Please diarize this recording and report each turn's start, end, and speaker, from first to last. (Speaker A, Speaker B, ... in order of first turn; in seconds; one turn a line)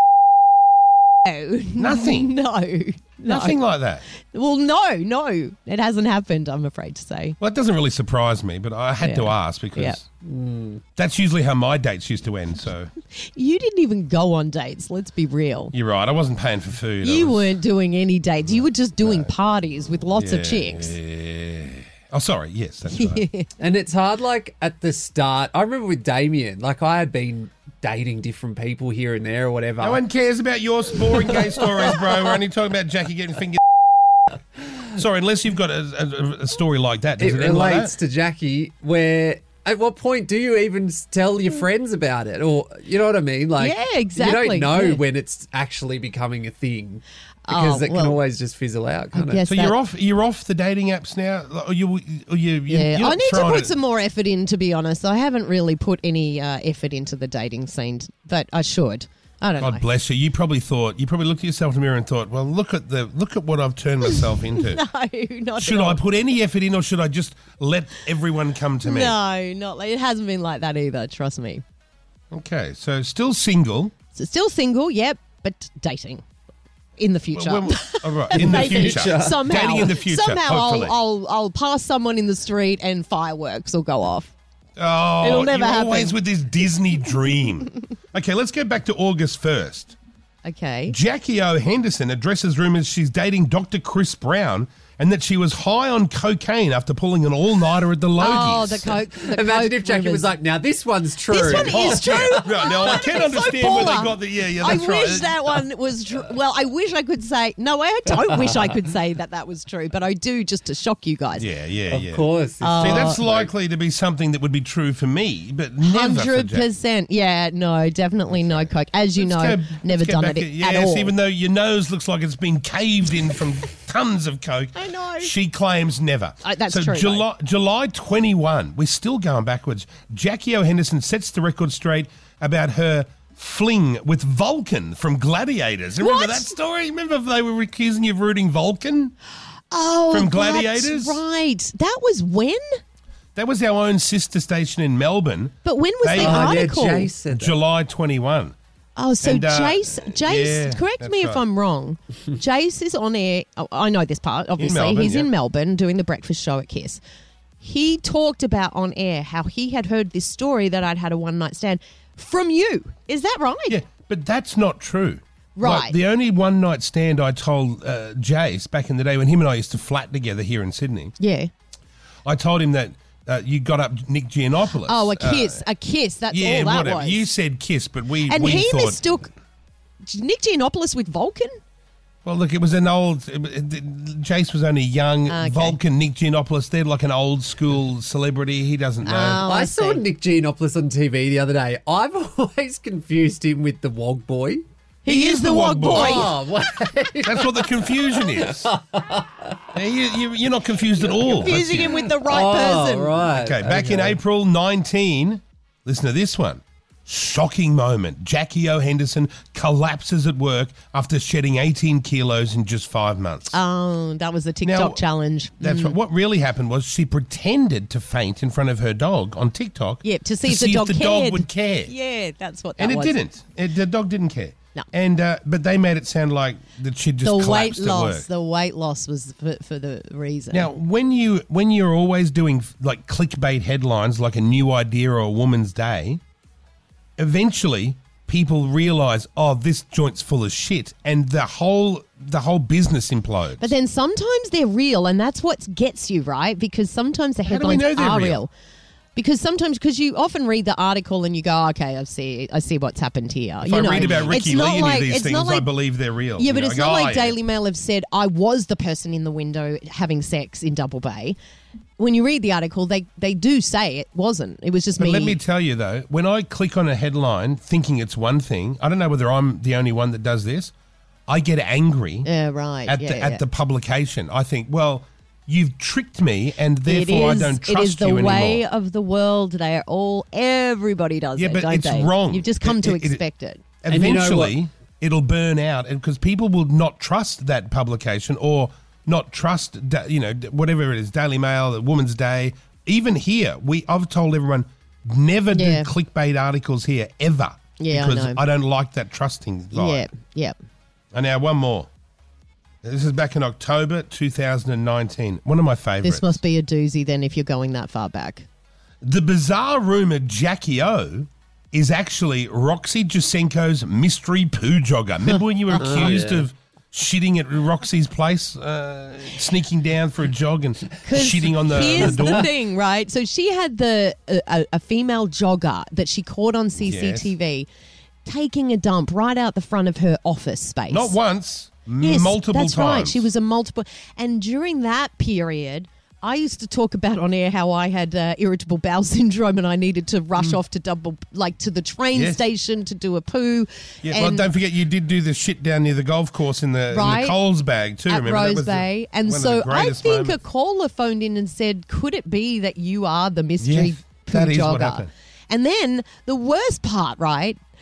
Speaker A: 1.3-3.6
Speaker B: 1.8-2.3
Speaker B: 3.3-4.0
Speaker A: 4.3-7.4
Speaker B: 7.4-10.0
Speaker A: 9.0-10.0
Speaker C: 10.2-10.8
Speaker B: 11.0-12.9
Speaker A: 13.1-15.7
Speaker B: 15.7-17.6
Speaker A: 17.0-21.0
Speaker B: 19.0-19.3
Speaker B: 20.1-23.2
Speaker A: 22.9-23.5
Speaker C: 23.6-30.0
Speaker B: 29.8-33.6
Speaker B: 34.9-38.0
Speaker C: 37.2-49.5
Speaker A: 43.6-45.0
Speaker A: 47.5-48.2
Speaker A: 49.1-49.8
Speaker B: 49.5-53.7
Speaker A: 52.7-59.8
Speaker B: 59.6-64.8
Speaker A: 64.6-66.0
Speaker B: 65.6-69.2
Speaker A: 68.8-71.6
Speaker B: 72.3-73.9
Speaker A: 74.2-76.2
Speaker A: 77.0-84.3
Speaker B: 77.3-81.0
Speaker C: 78.3-79.8
Speaker B: 84.8-90.0
Speaker A: 85.2-86.2
Speaker A: 90.4-91.0
Speaker B: 90.9-98.9
Speaker A: 98.2-100.3
Speaker C: 99.2-103.5
Speaker A: 101.3-111.5
Speaker B: 101.4-105.4
Speaker B: 111.4-116.7
Speaker C: 111.9-113.5
Speaker A: 112.6-113.2
Speaker A: 115.8-121.1
Speaker B: 119.2-139.1
Speaker A: 124.8-125.3
Speaker A: 126.4-127.3
Speaker A: 136.0-136.6
Speaker A: 139.7-142.6
Speaker B: 140.1-141.2
Speaker B: 143.4-146.6
Speaker A: 145.7-147.1
Speaker C: 146.2-147.6
Speaker B: 147.3-148.6
Speaker A: 149.0-157.0
Speaker B: 149.2-151.4
Speaker B: 154.6-155.3
Speaker A: 157.6-163.8
Speaker B: 163.7-171.2
Speaker A: 165.6-166.0
Speaker A: 171.2-171.5
Speaker B: 172.2-175.6
Speaker A: 174.9-177.3
Speaker B: 176.3-179.0
Speaker A: 178.3-179.3
Speaker A: 180.1-181.5
Speaker B: 182.2-189.4
Speaker A: 185.3-185.8
Speaker A: 189.1-190.0
Speaker C: 189.2-194.7
Speaker A: 195.0-196.3
Speaker B: 195.1-196.3
Speaker C: 195.9-199.7
Speaker B: 197.2-198.7
Speaker B: 199.7-201.9
Speaker C: 201.1-204.2
Speaker A: 201.3-203.2
Speaker B: 203.3-213.6
Speaker A: 213.5-216.0
Speaker B: 214.6-215.0
Speaker B: 215.6-221.9
Speaker A: 220.0-223.2
Speaker B: 222.8-228.3
Speaker A: 227.2-230.7
Speaker B: 230.5-236.2
Speaker B: 237.2-243.7
Speaker A: 243.6-248.5
Speaker B: 247.5-248.4
Speaker A: 249.2-255.7
Speaker B: 253.6-257.4
Speaker A: 256.4-261.4
Speaker A: 262.0-265.4
Speaker B: 265.0-270.7
Speaker B: 271.3-272.3
Speaker A: 272.2-273.4
Speaker B: 272.9-278.6
Speaker A: 276.9-283.6
Speaker B: 281.4-283.2
Speaker B: 283.8-300.1
Speaker C: 283.9-284.6
Speaker A: 295.5-295.9
Speaker A: 297.8-298.4
Speaker A: 299.7-300.6
Speaker B: 301.1-301.9
Speaker B: 302.8-306.4
Speaker A: 306.0-308.4
Speaker B: 309.0-322.5
Speaker C: 315.8-316.5
Speaker A: 315.8-316.1
Speaker A: 321.1-327.7
Speaker B: 326.8-327.4
Speaker A: 328.2-331.2
Speaker B: 330.9-333.3
Speaker A: 332.0-344.5
Speaker B: 342.1-342.4
Speaker B: 344.0-350.4
Speaker A: 346.9-347.4
Speaker A: 348.1-357.6
Speaker B: 353.6-355.1